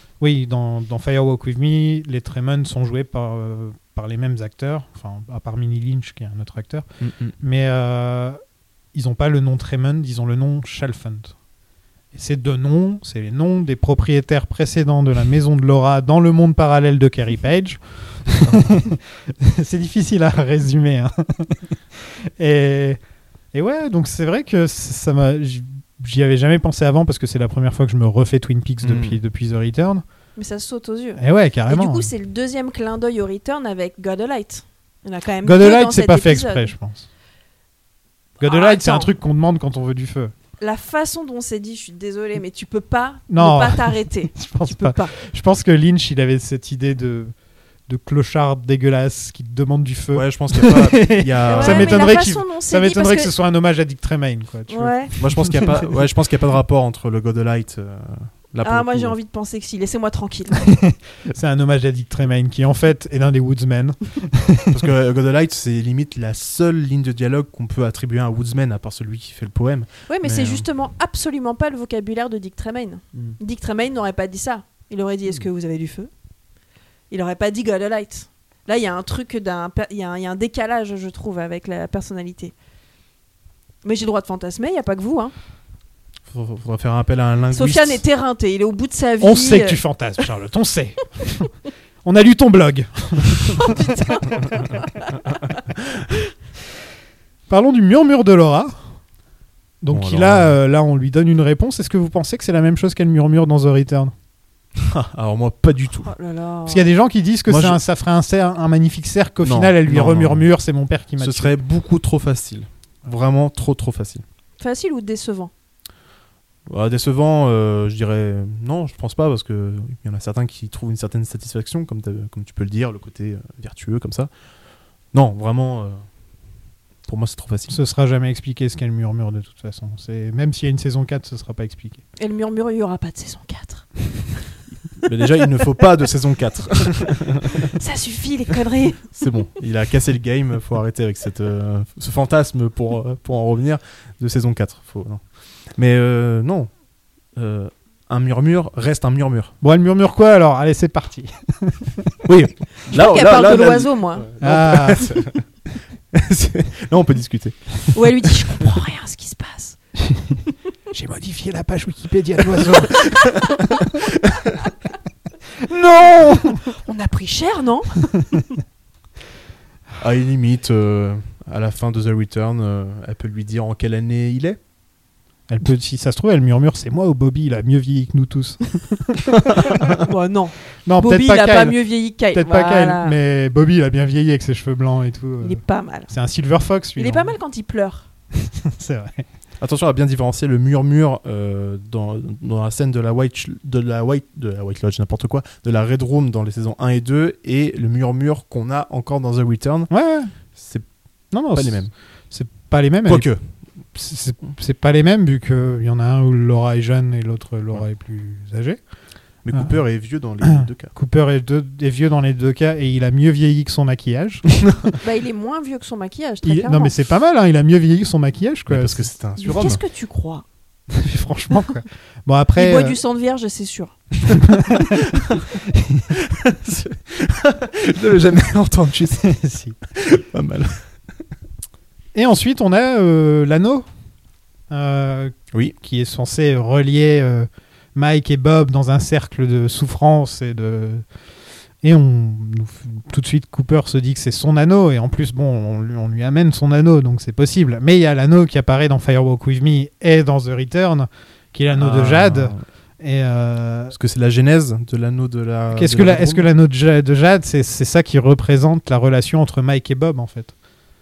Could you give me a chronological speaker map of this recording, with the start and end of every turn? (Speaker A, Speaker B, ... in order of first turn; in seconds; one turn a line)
Speaker A: 0.2-6.9
Speaker B: 7.0-7.3
Speaker A: 7.4-8.4
Speaker A: 8.9-11.3
Speaker A: 12.1-23.0
Speaker A: 23.5-30.0
Speaker B: 28.8-29.2
Speaker C: 30.4-36.7
Speaker A: 31.2-32.1
Speaker A: 35.4-37.1
Speaker A: 38.4-40.3
Speaker C: 38.4-39.1
Speaker C: 40.6-45.1
Speaker A: 43.3-47.3
Speaker A: 47.9-55.9
Speaker B: 50.1-52.1
Speaker C: 51.5-53.3
Speaker C: 54.7-55.1
Speaker B: 55.2-59.1
Speaker C: 58.6-60.7
Speaker A: 60.6-64.7
Speaker B: 64.7-70.7
Speaker C: 70.1-76.1
Speaker C: 77.1-82.5
Speaker C: 83.8-85.3
Speaker B: 86.3-88.0
Speaker C: 87.5-89.8
Speaker A: 89.2-91.5
Speaker A: 92.0-94.0
Speaker C: 93.6-95.1
Speaker A: 97.5-98.8
Speaker A: 99.8-104.1
Speaker B: 99.9-100.5
Speaker B: 104.8-106.1
Speaker C: 106.0-106.9
Speaker A: 106.7-111.5
Speaker B: 107.5-107.8
Speaker B: 109.4-110.5
Speaker B: 111.2-114.2
Speaker C: 114.6-115.5
Speaker B: 116.7-124.3
Speaker B: 125.1-126.0
Speaker B: 127.0-127.8
Speaker A: 127.7-132.0
Speaker C: 132.2-133.9
Speaker B: 135.0-137.7
Speaker C: 137.8-139.1
Speaker B: 139.1-146.7
Speaker B: 147.4-149.5
Speaker A: 149.6-152.1
Speaker B: 152.2-155.4
Speaker C: 152.9-154.3
Speaker A: 154.4-155.1
Speaker B: 156.1-157.9
Speaker C: 157.9-159.8
Speaker A: 160.1-160.4
Speaker A: 160.9-163.2
Speaker B: 162.8-163.5
Speaker B: 164.3-164.5
Speaker A: 165.6-166.6
Speaker C: 166.7-168.1
Speaker B: 170.0-174.6
Speaker A: 175.5-179.8
Speaker C: 180.0-183.2
Speaker A: 180.9-187.3
Speaker C: 185.4-186.1
Speaker C: 187.0-188.1
Speaker A: 188.4-189.2
Speaker B: 189.6-199.9
Speaker A: 199.9-200.3
Speaker B: 200.6-200.9
Speaker A: 201.3-203.3
Speaker B: 201.4-201.9
Speaker B: 203.1-203.4
Speaker A: 203.9-208.8
Speaker B: 209.4-210.9
Speaker A: 209.5-209.8
Speaker A: 210.4-214.7
Speaker C: 215.0-216.9
Speaker A: 216.4-219.7
Speaker B: 218.7-219.8
Speaker C: 219.4-220.4
Speaker A: 220.9-223.0
Speaker C: 222.6-223.9
Speaker A: 224.3-225.0
Speaker B: 224.8-225.4
Speaker A: 225.7-226.1
Speaker B: 226.1-229.3
Speaker A: 229.2-229.8
Speaker B: 229.9-230.8
Speaker A: 232.1-233.9
Speaker A: 234.7-241.1
Speaker A: 241.8-253.9
Speaker B: 251.7-252.7
Speaker B: 253.9-256.5
Speaker A: 255.7-260.5